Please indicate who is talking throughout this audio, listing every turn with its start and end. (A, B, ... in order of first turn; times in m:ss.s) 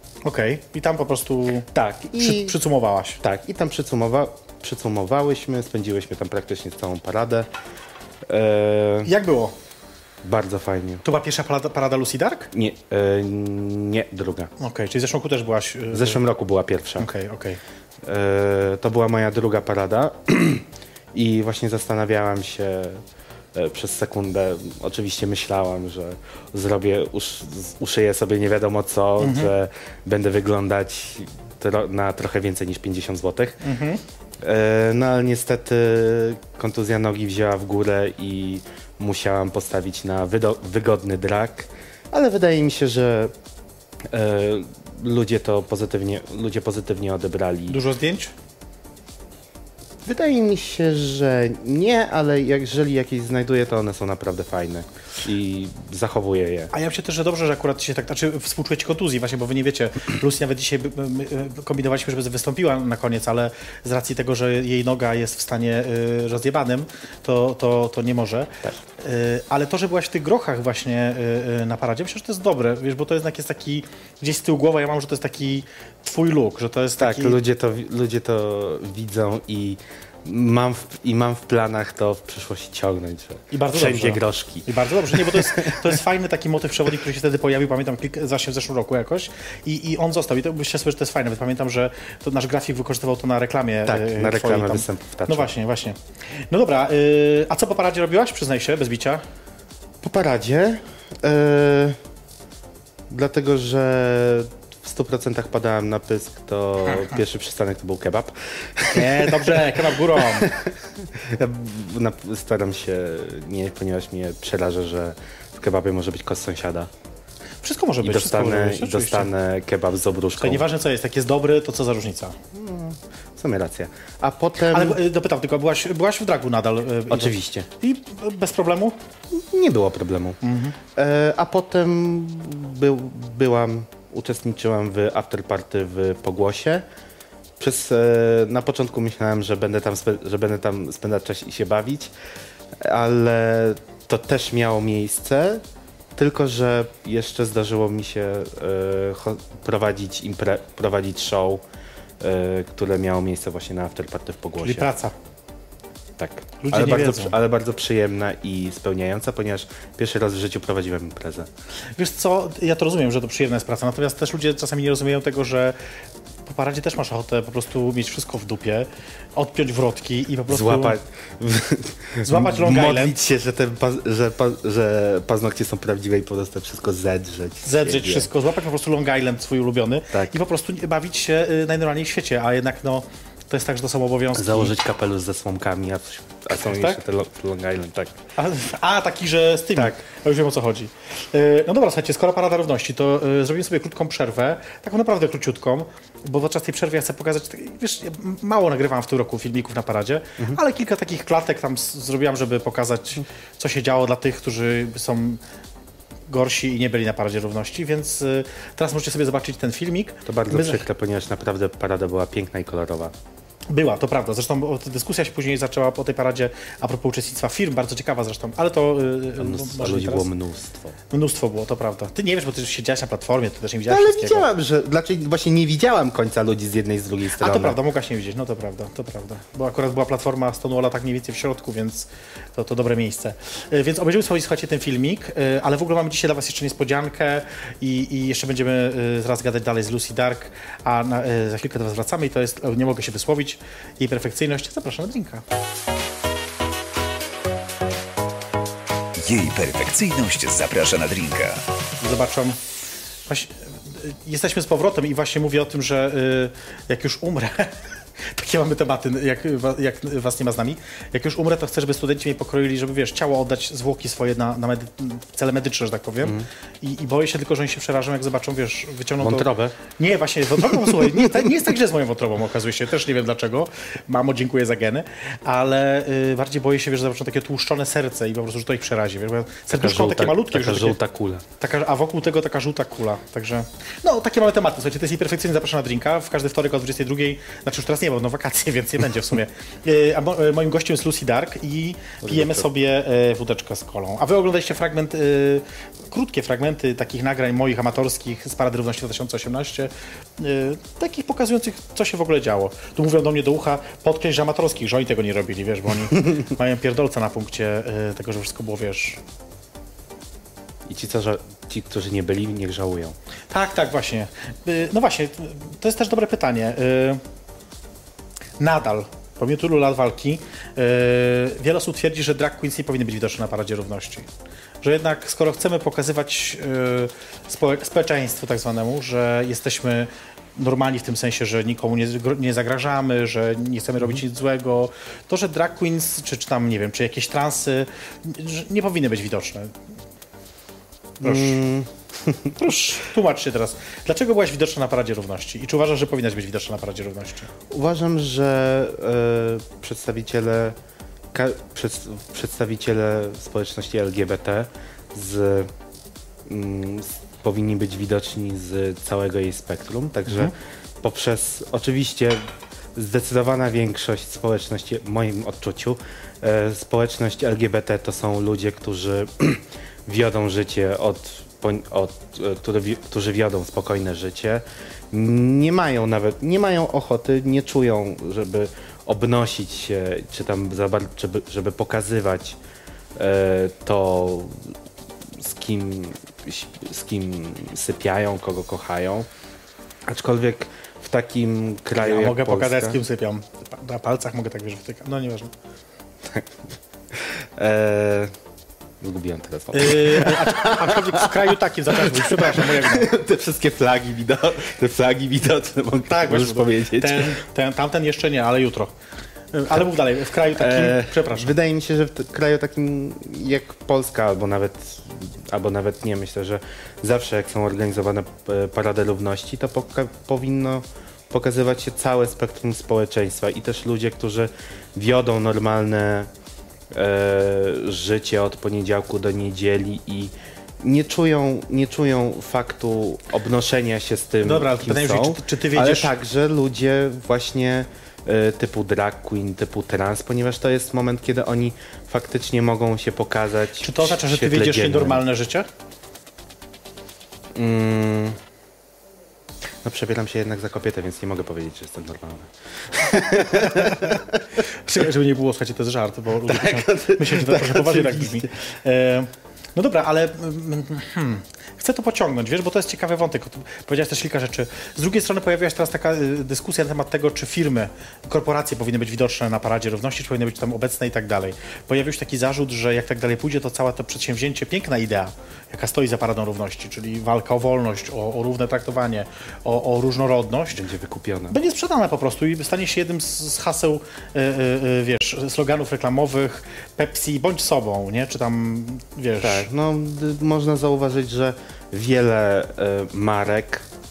0:00.2-0:03.2 A
0:01.7-0:02.6 B
0:03.2-0:07.5 B
0:08.3-0:09.1 B
0:09.0-0:09.5 A
0:10.2-0:11.0 B
0:11.0-0:12.5 A
0:12.5-0:14.5 B
0:14.6-0:16.2 A
0:15.9-0:17.1 B
0:17.0-0:17.6 A
0:18.0-0:23.0 B
0:23.5-0:33.6 B
0:29.2-0:29.5 A
0:33.6-0:34.0 A
0:34.4-0:43.3 B
0:44.1-0:47.8 B
0:47.7-0:48.3 A
0:50.0-0:56.7 B
0:56.7-1:17.4 A
1:17.0-1:25.8 B
1:23.5-1:36.0 A
1:33.8-1:35.5 B
1:36.5-1:39.2 A
1:40.0-1:42.0 B
1:43.1-1:56.9 B
1:48.9-1:50.5 A
1:57.6-1:59.3 A
1:58.0-2:00.6 B
2:00.4-2:02.4 A
2:02.5-2:05.0 B
2:04.7-2:09.0 A
2:07.1-2:07.7 B
2:09.3-2:10.4 B
2:10.4-2:10.8 A
2:10.9-2:16.8 B
2:17.6-2:22.1 B
2:22.8-2:25.6 B
2:26.1-2:31.6 B
2:32.2-2:34.9 B
2:34.6-2:35.1 A
2:36.2-2:41.5 B
2:36.6-2:37.4 A
2:42.0-2:45.8 A
2:46.4-2:51.0 A
2:50.5-2:58.3 B
2:52.2-2:53.2 A
2:57.6-3:04.7 A
3:04.4-3:08.2 B
3:06.5-3:07.0 A
3:08.4-3:25.4 A
3:26.3-3:30.8 A
3:30.2-3:33.1 B
3:33.7-3:40.3 A
3:39.4-3:41.0 B
3:41.1-3:44.5 A
3:43.9-3:47.8 B
3:47.4-4:05.4 A
4:09.2-4:11.6 C
4:12.0-4:12.6 A
4:13.3-4:41.0 A
4:29.2-4:29.8 B
4:31.0-4:31.5 B
4:39.7-4:41.4 B
4:41.6-5:09.2 A
4:52.2-4:52.7 B
5:10.9-5:13.2 B
5:13.5-5:17.2 A
5:18.6-5:24.3 A
5:24.8-5:39.8 A
5:41.2-5:41.6 A
5:41.2-5:42.8 B
5:42.6-5:47.5 A
5:47.7-5:50.8 B
5:51.3-5:55.7 B
5:56.5-6:22.6 B
6:00.3-6:00.5 A
6:23.2-6:24.7 B
6:25.4-6:29.3 B
6:30.1-6:33.0 B
6:32.0-6:35.5 A
6:36.2-6:38.3 B
6:39.0-6:47.4 B
6:39.7-6:43.1 A
6:46.1-6:48.9 A
6:49.5-6:51.5 A
6:50.5-7:06.3 B
7:06.9-7:25.2 B
7:14.4-7:16.1 A
7:23.8-7:25.7 A
7:27.5-7:28.4 B
7:29.8-7:34.4 B
7:33.3-8:00.9 A
7:36.4-7:38.5 B
8:00.7-8:01.6 B
8:01.5-8:09.7 A
8:09.4-8:13.8 B